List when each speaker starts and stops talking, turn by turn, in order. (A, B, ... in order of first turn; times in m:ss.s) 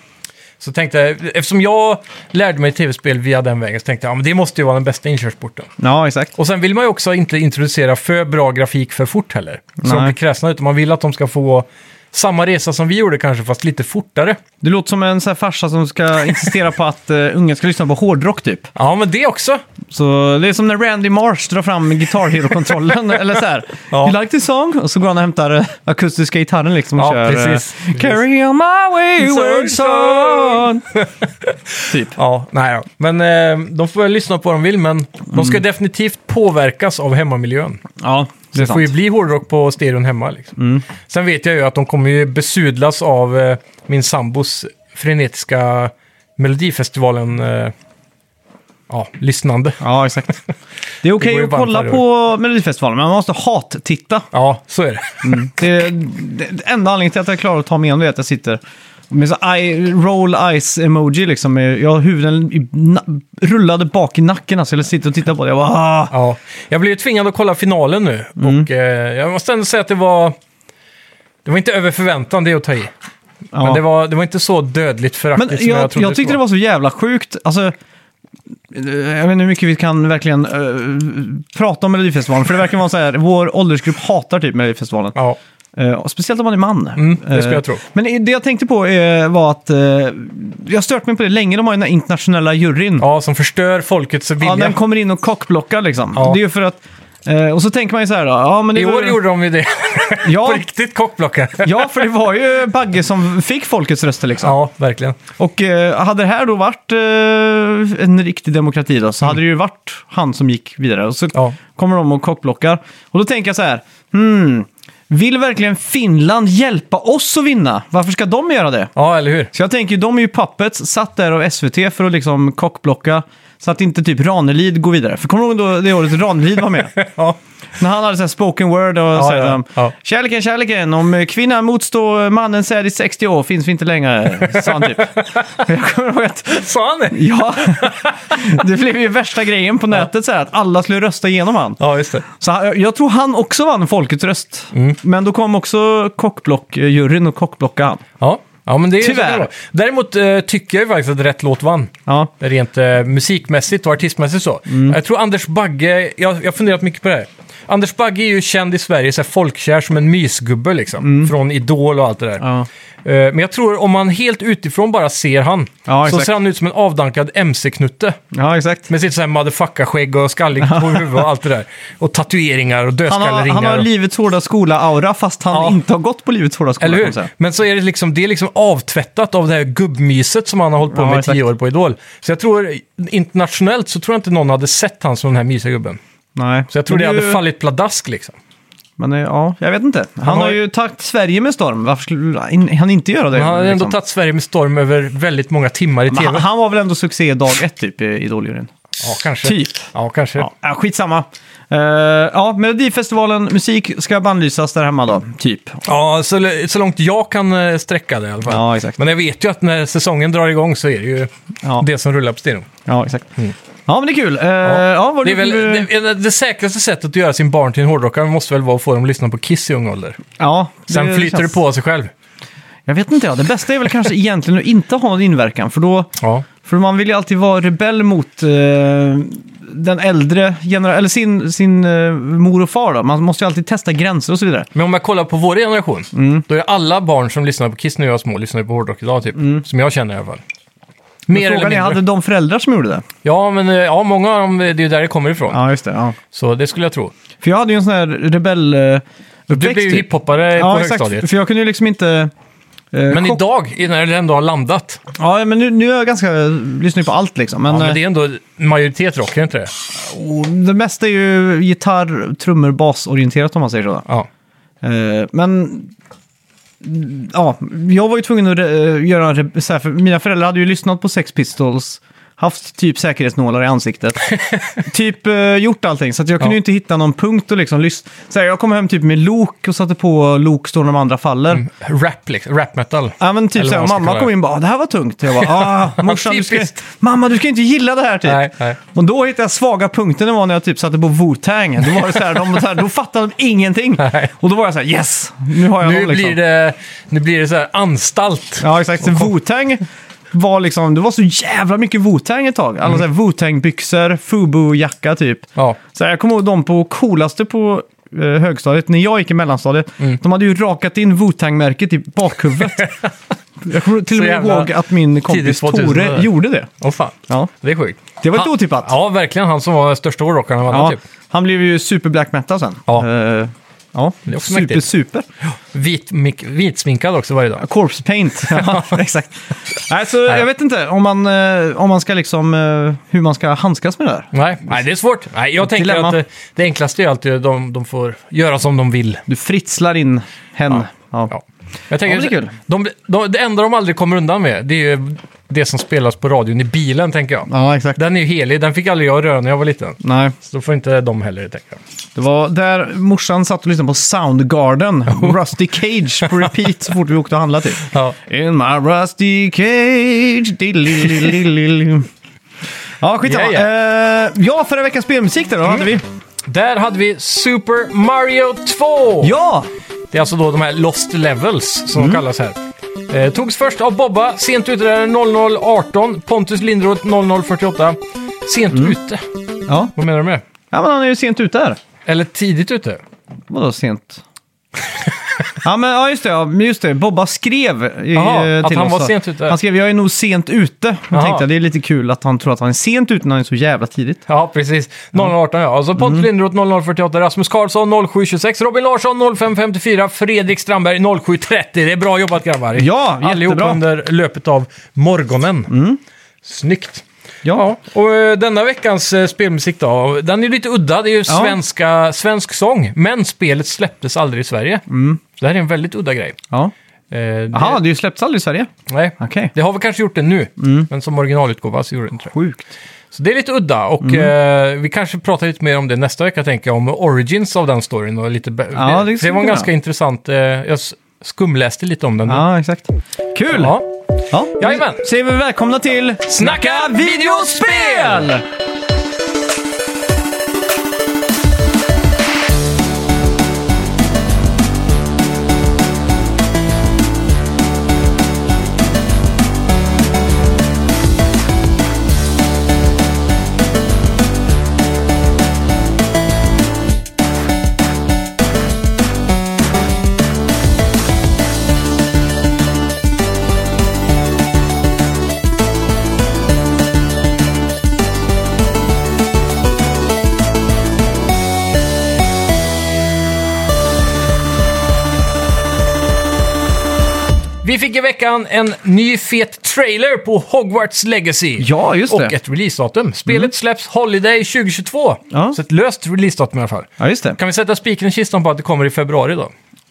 0:00.6-0:05.7 A
0:05.8-0:06.3 B
0:06.4-0:14.4 A
0:09.8-0:10.1 B
0:14.6-0:18.7 B
0:18.7-0:19.6 A
0:19.9-0:30.8 B
0:23.9-0:24.2 A
0:27.0-0:28.2 A
0:29.2-0:37.8 A
0:31.9-0:32.2 B
0:35.3-0:35.6 B
0:38.0-0:38.9 B
0:38.5-0:47.7 A
0:40.6-0:40.8 B
0:48.9-0:49.8 A
0:49.8-0:50.3 B
0:51.0-0:54.3 B
0:51.2-0:52.0 A
0:54.3-0:55.5 A
0:55.2-1:06.1 B
1:06.1-1:10.4 A
1:08.4-1:08.7 B
1:11.4-1:12.9 A
1:13.5-1:13.8 B
1:13.6-1:16.4 A
1:15.4-1:17.7 B
1:18.7-1:25.2 B
1:25.8-1:33.0 B
1:27.0-1:27.8 A
1:33.0-1:34.8 A
1:34.4-1:39.2 B
1:38.7-1:42.1 A
1:40.2-1:40.6 B
1:41.6-1:44.5 B
1:44.4-1:45.2 A
1:45.4-1:58.9 B
1:59.0-1:59.5 A
1:59.5-2:06.9 B
2:06.9-2:07.4 A
2:07.8-2:28.0 B
2:09.1-2:09.9 A
2:14.4-2:15.6 A
2:16.5-2:18.5 A
2:21.8-2:22.2 A
2:24.7-2:25.0 A
2:28.2-2:42.4 A
2:29.0-2:29.5 B
2:34.7-2:35.0 B
2:41.0-2:41.3 B
2:42.4-2:42.7 B
2:43.0-2:48.2 A
2:45.9-2:46.3 B
2:48.3-2:48.9 B
2:48.9-2:53.9 A
2:50.6-2:51.2 B
2:53.1-2:57.3 B
2:55.5-2:55.8 A
2:56.8-3:06.0 A
3:00.9-3:01.4 B
3:06.3-3:07.4 B
3:06.7-3:08.4 A
3:09.0-3:14.0 B
3:10.2-3:10.6 A
3:13.3-3:16.4 A
3:16.1-3:18.7 B
3:19.0-3:20.5 A
3:19.4-3:25.8 B
3:25.8-3:32.7 A
3:28.5-3:29.0 B
3:32.8-3:33.3 B
3:33.9-3:35.9 B
3:34.6-3:40.2 A
3:40.4-3:41.6 B
3:40.9-3:42.1 A
3:42.8-3:46.1 B
3:46.2-3:46.4 A
3:46.6-3:54.7 B
3:54.7-4:00.4 A
3:56.1-3:56.4 B
3:59.4-3:59.6 B
4:01.3-4:02.0 A
4:01.3-4:03.0 B
4:03.2-4:05.6 A
4:05.5-4:06.2 B
4:06.3-4:07.1 A
4:07.4-4:12.3 B
4:09.5-4:11.2 A
4:12.9-4:13.4 B
4:13.1-4:15.0 A
4:15.2-4:18.0 B
4:17.7-4:19.7 A
4:20.0-4:24.0 B
4:24.8-4:25.9 B
4:26.8-4:34.2 B
4:34.3-4:34.8 A
4:34.8-4:41.6 B
4:41.5-4:44.3 A
4:43.2-4:56.4 B
4:45.4-4:46.8 A
4:48.2-4:48.8 A
4:54.0-4:54.3 A
4:55.8-4:59.3 A
4:58.6-5:12.9 B
5:12.8-5:13.1 A
5:13.6-5:16.7 B
5:14.1-5:14.7 A
5:15.2-5:21.0 A
5:18.2-5:18.9 B
5:20.7-5:25.2 B
5:24.2-5:24.8 A
5:25.7-5:27.6 A
5:27.6-5:34.8 B
5:28.4-5:29.0 A
5:34.3-5:39.2 A
5:35.6-5:36.2 B
5:39.3-5:41.3 B
5:41.3-5:51.8 A
5:42.0-5:42.5 B
5:47.5-5:48.0 B
5:50.0-5:50.3 B
5:52.1-6:02.1 B
5:57.8-5:58.2 A
6:03.0-6:06.0 B
6:03.2-6:03.7 A
6:06.5-6:09.3 A
6:09.2-6:09.7 B
6:10.1-6:12.6 A
6:12.0-6:12.2 B
6:13.1-6:19.2 A
6:19.7-6:19.9 B
6:19.9-6:20.4 A
6:20.7-6:21.8 B
6:22.0-6:23.0 A
6:23.5-6:24.2 B
6:25.6-6:34.2 B
6:28.1-6:29.6 A
6:31.1-6:31.4 A
6:34.3-6:45.7 A
6:36.0-6:36.2 B
6:42.8-6:43.8 B
6:45.7-6:46.0 B
6:46.4-6:54.8 A
6:51.3-6:51.6 B
6:54.9-6:55.2 B
6:55.4-6:56.4 A
6:57.1-6:57.8 A
6:57.5-6:59.5 B
6:58.9-7:02.3 A
7:00.6-7:00.9 B
7:02.3-7:02.7 B
7:03.1-7:12.4 A
7:04.0-7:04.3 B
7:08.7-7:09.7 B
7:12.3-7:13.8 B
7:13.5-7:13.9 A
7:14.3-7:18.4 B
7:14.6-7:15.0 A
7:16.3-7:18.3 A
7:57.6-8:09.5 A
8:01.6-8:02.3 B
8:05.3-8:05.6 B
8:07.0-8:07.4 B